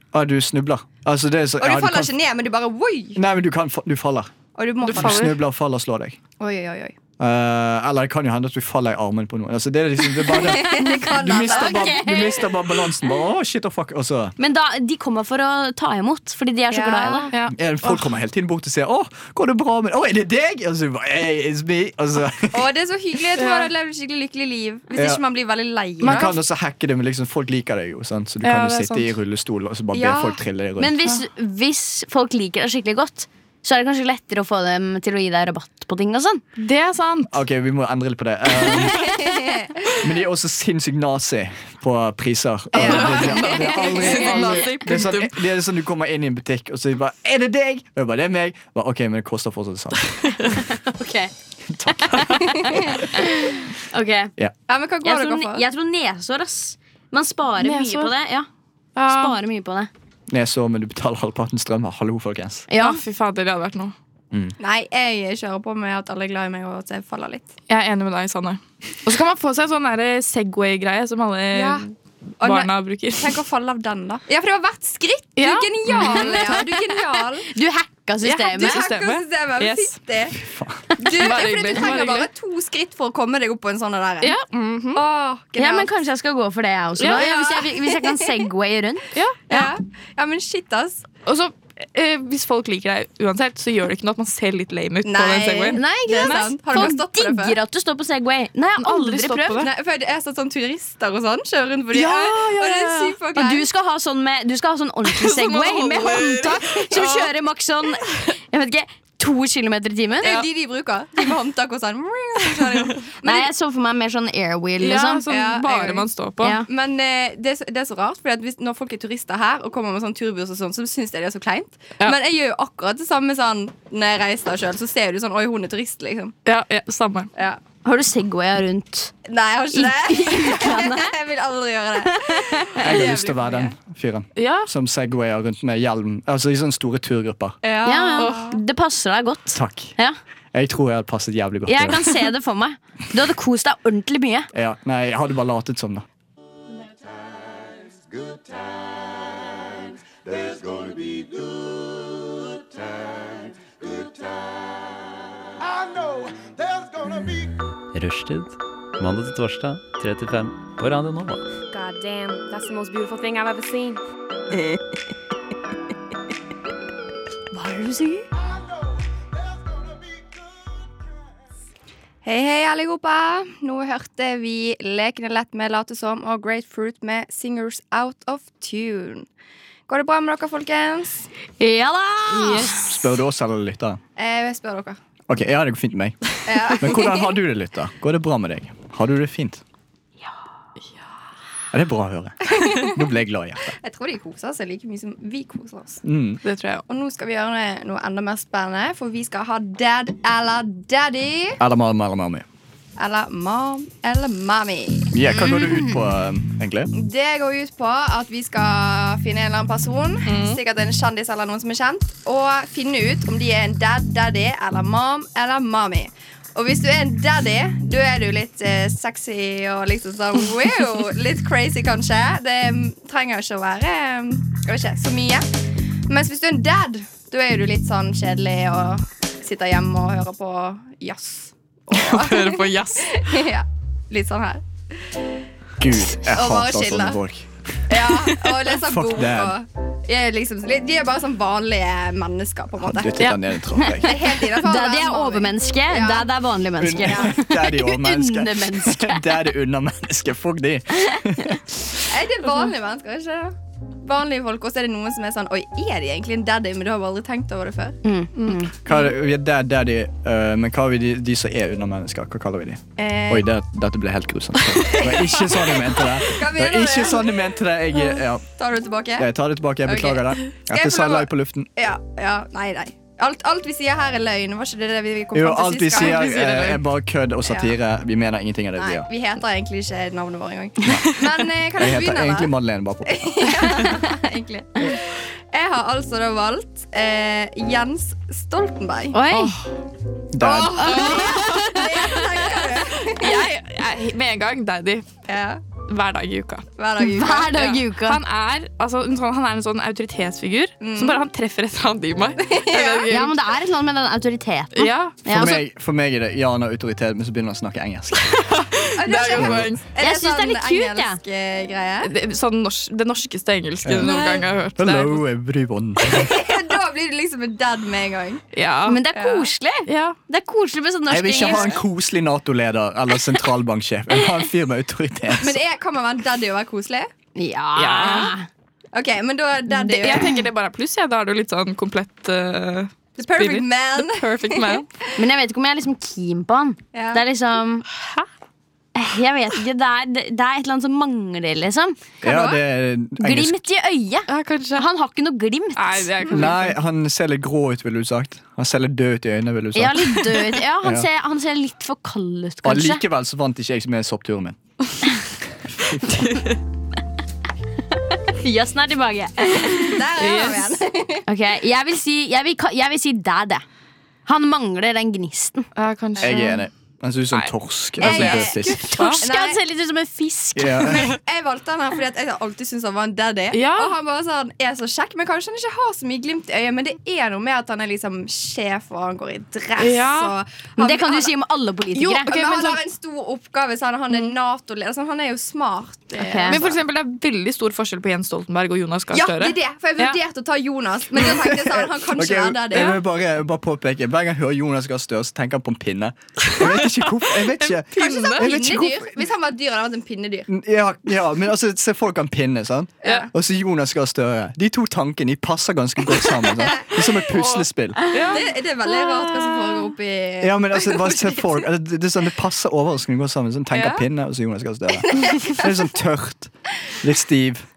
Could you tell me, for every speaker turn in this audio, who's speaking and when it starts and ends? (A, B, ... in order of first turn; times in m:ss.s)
0:00.1-0:02.1 A
0:01.6-0:03.2 B
0:03.1-0:06.2 A
0:04.6-0:05.3 B
0:04.8-0:05.3 C
0:06.4-0:07.0 B
0:07.2-0:14.3 A
0:10.3-0:12.0 B
0:10.7-0:12.6 D
0:14.4-0:17.3 D
0:16.7-0:17.3 B
0:17.3-0:18.1 C
0:17.5-0:22.7 A
0:22.5-0:26.3 B
0:23.4-0:23.7 C
0:24.9-0:25.2 A
0:26.0-0:31.0 A
0:28.4-0:29.1 C
0:29.9-0:30.4 B
0:30.8-0:36.4 D
0:36.6-0:37.4 C
0:37.3-0:39.1 A
0:38.9-0:40.0 B
0:40.0-0:50.6 A
0:42.7-0:43.6 B
0:42.7-0:45.3 C
0:50.5-0:51.3 D
0:51.7-0:52.4 A
0:51.9-0:54.3 D
0:54.7-0:55.6 B
0:55.0-0:58.5 D
0:57.6-0:58.1 C
0:59.0-0:59.4 C
0:59.0-0:59.9 D
1:00.3-1:02.6 A
1:02.7-1:03.0 D
1:02.8-1:03.9 C
1:04.6-1:07.5 B
1:07.7-1:13.4 C
1:11.5-1:11.8 B
1:12.4-1:17.4 B
1:15.4-1:16.6 C
1:17.5-1:18.8 D
1:18.2-1:19.9 C
1:18.6-1:20.3 B
1:20.3-1:20.8 A
1:21.0-1:24.4 B
1:21.0-1:22.3 C
1:24.2-1:25.0 C
1:24.9-1:25.9 B
1:25.6-1:29.7 D
1:27.0-1:27.2 C
1:27.1-1:28.2 B
1:29.1-1:29.4 C
1:29.5-1:31.0 B
1:31.2-1:37.0 C
1:35.0-1:37.6 B
1:35.7-1:39.7 D
1:38.8-1:39.7 C
1:39.6-1:43.6 B
1:41.9-1:43.2 C
1:43.3-1:50.4 D
1:45.1-1:47.3 C
1:50.2-1:53.5 B
1:53.2-1:55.2 D
1:54.8-1:56.5 C
1:55.3-2:06.3 B
2:06.4-2:07.3 C
2:07.8-2:09.1 D
2:09.3-2:13.7 B
2:09.7-2:11.1 D
2:12.1-2:12.6 D
2:12.8-2:17.6 A
2:14.4-2:14.7 C
2:17.6-2:18.6 B
2:17.8-2:20.2 D
2:18.2-2:18.4 C
2:19.5-2:19.9 A
2:20.5-2:22.3 A
2:21.7-2:24.5 D
2:24.5-2:26.0 A
2:37.1-2:41.5 E
2:41.7-2:44.0 F
2:47.5-2:48.2 D
2:52.2-2:59.3 B
2:59.9-3:01.3 B
3:01.6-3:02.9 D
3:02.4-3:02.6 C
3:02.7-3:04.0 A
3:04.2-3:05.0 B
3:05.3-3:09.6 A
3:06.4-3:07.4 B
3:11.7-3:13.7 A
3:12.5-3:12.9 B
3:13.8-3:16.0 B
3:16.0-3:16.4 A
3:16.4-3:16.8 C
3:16.9-3:21.6 B
3:21.6-3:22.4 A
3:23.0-3:25.1 B
3:25.1-3:26.9 A
3:26.9-3:45.5 B
3:30.2-3:30.6 C
3:46.1-3:55.2 B
3:51.9-3:53.4 C
3:55.8-3:57.5 A
3:56.2-3:57.2 B
3:57.9-4:03.2 B
3:58.8-3:59.6 A
4:02.8-4:04.2 A
4:03.8-4:09.3 D
4:04.0-4:06.3 B
4:06.8-4:12.0 A
4:07.0-4:07.3 B
4:11.1-4:11.6 D
4:12.1-4:18.0 B
4:18.0-4:18.7 D
4:18.8-4:28.4 A
4:23.0-4:23.5 B
4:24.9-4:27.4 B
4:28.6-4:29.3 B
4:29.2-4:31.7 A
4:29.8-4:36.6 B
4:35.3-4:39.1 A
4:35.9-4:36.8 C
4:37.4-4:37.7 B
4:38.8-4:42.5 B
4:41.7-4:43.5 A
4:43.1-4:49.2 B
4:49.1-4:49.6 D
4:49.3-4:49.6 C
4:50.3-4:51.1 A
4:50.5-4:53.4 B
4:50.8-4:51.8 C
4:50.8-4:51.8 D
4:53.0-4:55.0 C
4:55.3-4:55.6 B
4:55.8-4:56.7 C
4:56.8-4:57.7 B
4:57.0-4:58.2 D
4:57.5-5:03.4 C
5:00.8-5:01.2 B
5:02.4-5:03.1 B
5:03.1-5:05.6 D
5:04.7-5:05.1 C
5:05.2-5:08.6 A
5:08.2-5:09.8 C
5:08.9-5:12.1 B
5:09.3-5:09.7 A
5:10.0-5:11.2 D
5:12.0-5:15.2 C
5:13.8-5:14.2 A
5:14.8-5:16.4 A
5:16.1-5:18.4 B
5:18.5-5:19.0 C
5:18.8-5:21.8 D
5:19.1-5:19.5 B
5:19.8-5:20.2 C
5:21.1-5:25.6 A
5:25.4-5:27.1 B
5:27.4-5:28.5 D
5:27.8-5:28.3 C
5:28.9-5:30.4 B
5:29.7-5:34.8 C
5:33.2-5:34.8 B
5:35.2-5:37.8 D
5:36.9-5:37.2 B
5:38.0-5:38.2 C
5:39.0-5:42.0 D
5:42.2-5:42.6 B
5:42.2-5:43.6 A
5:43.2-5:46.1 D
5:44.3-5:44.8 C
5:45.8-5:46.8 C
5:46.3-5:50.3 A
5:49.7-5:53.0 D
5:52.6-5:54.6 A
5:55.7-5:56.2 A
5:56.1-5:56.6 C
5:58.4-6:00.0 D
5:59.8-6:01.2 B
6:00.2-6:00.7 C
6:01.3-6:03.6 D
6:04.2-6:05.6 D
6:05.8-6:06.6 C
6:06.2-6:08.9 A
6:07.3-6:09.2 C
6:08.0-6:09.6 B
6:08.7-6:10.9 D
6:10.6-6:11.1 A
6:10.8-6:21.3 B
6:13.5-6:13.9 C
6:19.8-6:20.3 C
6:20.8-6:22.3 D
6:22.0-6:22.8 C
6:22.2-6:26.7 B
6:26.2-6:26.6 D
6:26.4-6:30.2 C
6:29.1-6:33.0 B
6:31.4-6:39.2 A
6:32.7-6:33.0 C
6:37.7-6:38.5 C
6:37.9-6:40.5 B
6:40.5-6:48.0 A
6:43.0-6:43.3 B
6:47.3-6:48.4 C
6:48.3-6:51.4 B
6:50.4-6:57.6 A
6:53.7-6:54.0 C
6:55.1-6:55.6 B